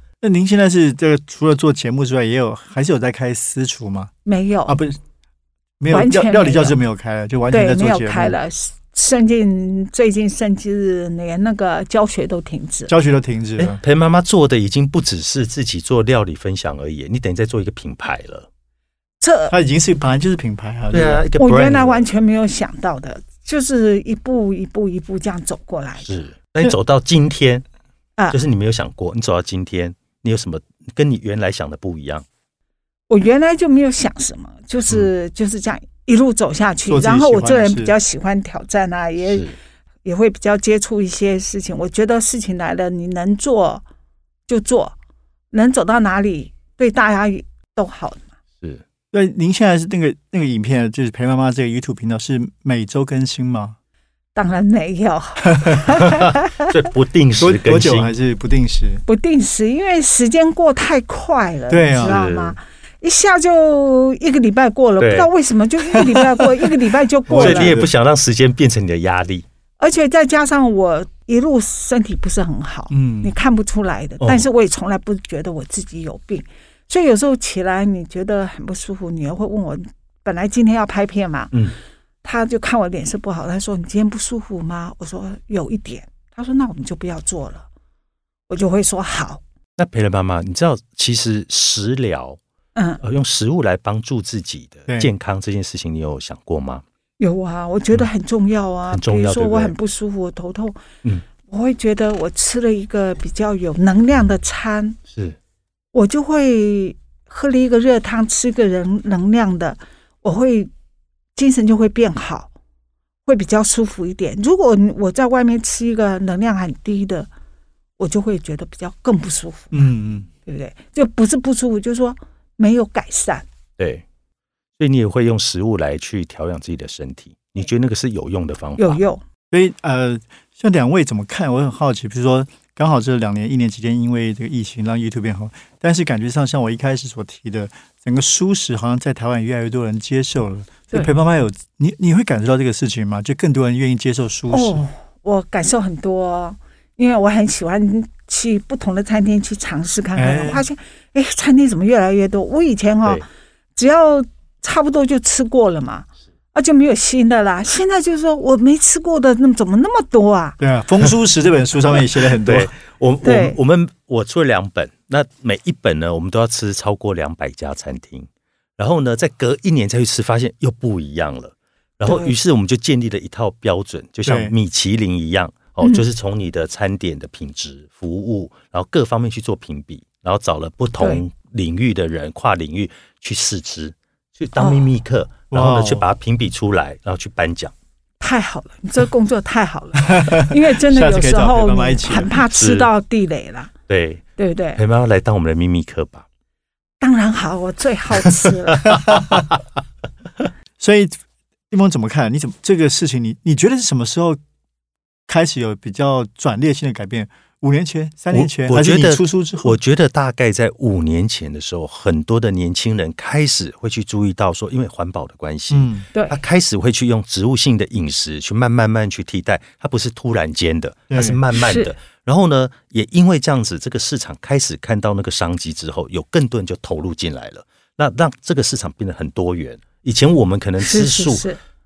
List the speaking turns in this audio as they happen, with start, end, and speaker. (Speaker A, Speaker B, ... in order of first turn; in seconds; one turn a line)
Speaker A: 0.2-4.1
Speaker B: 4.2-4.8
Speaker A: 4.7-5.0
Speaker A: 5.8-8.4
Speaker B: 5.9-6.8
Speaker B: 7.5-12.9
Speaker A: 12.9-13.8
Speaker C: 13.6-18.5
Speaker B: 19.2-19.5
Speaker A: 19.5-21.3
Speaker C: 20.9-22.1
Speaker B: 21.4-26.1
Speaker C: 26.0-27.6
Speaker C: 28.3-32.2
Speaker B: 33.1-39.5
Speaker A: 36.9-37.9
Speaker C: 39.3-39.5
Speaker B: 40.0-43.8
Speaker B: 44.5-45.0
Speaker B: 45.5-48.2
Speaker A: 49.1-53.8
Speaker B: 54.4-56.7
Speaker C: 56.0-58.1
Speaker A: 57.4-59.0
Speaker B: 59.1-67.8
Speaker A: 61.7-62.2
Speaker C: 62.0-62.6
Speaker C: 65.0-65.3
Speaker C: 65.9-66.2
Speaker A: 67.3-67.9
Speaker C: 67.3-69.5
Speaker B: 69.8-81.5
Speaker A: 72.9-73.3
Speaker B: 82.2-87.7
Speaker B: 88.5-89.4
Speaker C: 89.8-92.4
Speaker B: 92.8-93.0
Speaker C: 93.0-96.8
Speaker B: 97.2-100.8
Speaker C: 98.9-99.7
Speaker B: 101.4-105.0
Speaker C: 105.1-105.4
Speaker B: 105.9-110.7
Speaker B: 111.4-112.5
Speaker B: 113.3-117.3
Speaker B: 118.0-119.9
Speaker A: 119.7-120.3
Speaker B: 120.5-123.5
Speaker C: 123.8-124.0
Speaker C: 124.8-129.0
Speaker B: 128.8-129.2
Speaker A: 129.5-144.8
Speaker B: 144.5-153.2
Speaker A: 150.2-150.6
Speaker B: 153.8-160.6
Speaker A: 160.6-162.7
Speaker C: 162.4-187.7
Speaker B: 163.2-163.6
Speaker B: 172.1-172.3
Speaker A: 174.3-174.5
Speaker B: 184.6-184.9
Speaker A: 185.5-186.1
Speaker B: 188.2-193.7
Speaker A: 190.1-192.4
Speaker C: 192.6-192.9
Speaker C: 193.9-194.2
Speaker B: 194.4-194.8
Speaker C: 194.8-196.2
Speaker B: 197.0-199.0
Speaker C: 198.4-199.5
Speaker A: 200.8-201.2
Speaker A: 201.7-204.4
Speaker A: 205.3-209.8
Speaker C: 208.3-231.5
Speaker A: 215.7-216.0
Speaker B: 216.1-216.4
Speaker A: 221.1-221.4
Speaker B: 221.5-221.9
Speaker B: 230.8-231.6